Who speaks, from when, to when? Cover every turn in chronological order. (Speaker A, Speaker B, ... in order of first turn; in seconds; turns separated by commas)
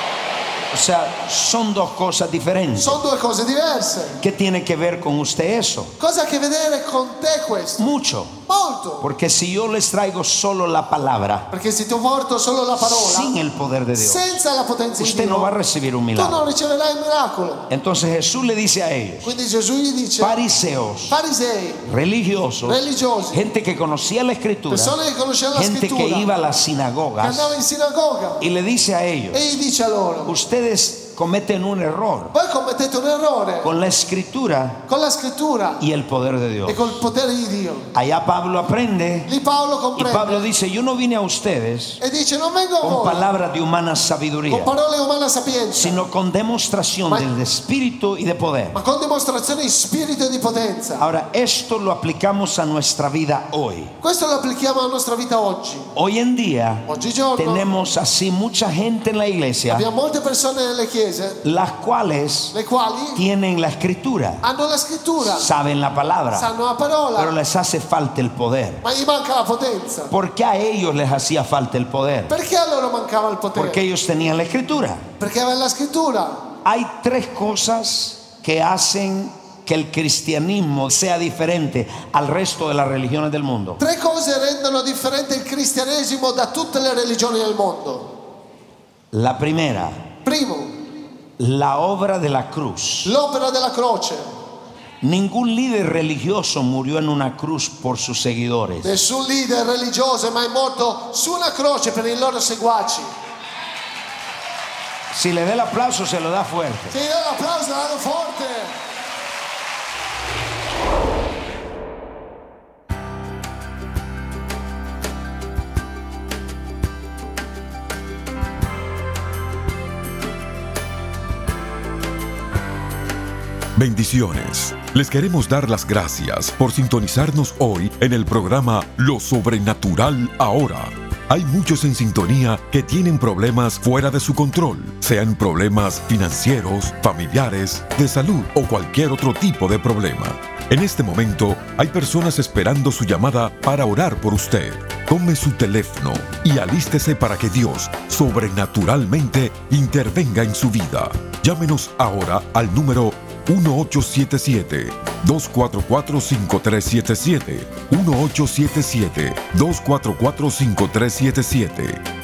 Speaker A: 0.7-3.0, Speaker B: 2.8-4.2, Speaker A: 4.2-5.9, Speaker B: 6.0-7.9, Speaker A: 7.8-8.4, Speaker B: 8.5-9.1, Speaker A: 9.0-11.5, Speaker B: 11.5-13.3, Speaker A: 12.8-14.4, Speaker B: 14.0-15.5, Speaker A: 15.0-16.4, Speaker B: 16.2-17.6, Speaker A: 17.7-19.3, Speaker B: 19.2-20.4, Speaker A: 20.2-21.2, Speaker B: 21.1-21.9, Speaker A: 21.9-25.0, Speaker B: 22.6-23.4, Speaker B: 24.7-26.3, Speaker A: 25.5-27.6, Speaker B: 27.2-28.5, Speaker A: 28.4-29.5, Speaker B: 29.3-30.3, Speaker A: 30.2-32.3, Speaker B: 32.3-33.7, Speaker A: 33.6-34.8, Speaker B: 34.9-35.8, Speaker A: 35.8-37.0, Speaker B: 36.7-37.9, Speaker A: 37.9-39.3, Speaker B: 39.3-40.5, Speaker A: 40.0-42.0, Speaker B: 42.0-43.2, Speaker A: 42.8-44.7, Speaker B: 44.5-46.0, Speaker A: 45.8-48.8, Speaker B: 48.7-51.0, Speaker A: 51.0-53.9, Speaker B: 54.0-55.9, Speaker A: 56.0-59.9, Speaker B: 56.9-57.7, Speaker B: 59.7-61.4, Speaker A: 61.4-62.5, Speaker B: 62.5-63.2, Speaker A: 63.1-64.4, Speaker B: 64.4-65.5, Speaker A: 65.2-66.5, Speaker B: 66.3-67.3, Speaker A: 67.2-68.8, Speaker B: 68.8-70.1, Speaker A: 70.1-72.3, Speaker B: 72.3-73.8, Speaker A: 73.5-75.1, Speaker B: 75.2-76.4, Speaker A: 76.6-83.8, Speaker B: 83.8-88.1, Speaker A: 89.1-90.1, Speaker B: 90.2-90.7, Speaker A: 91.4-93.1, Speaker B: 93.0-94.2, Speaker A: 95.0-99.0, Speaker B: 98.8-103.1, Speaker A: 105.1-107.0, Speaker B: 106.9-108.7, Speaker C: 123.8-162.0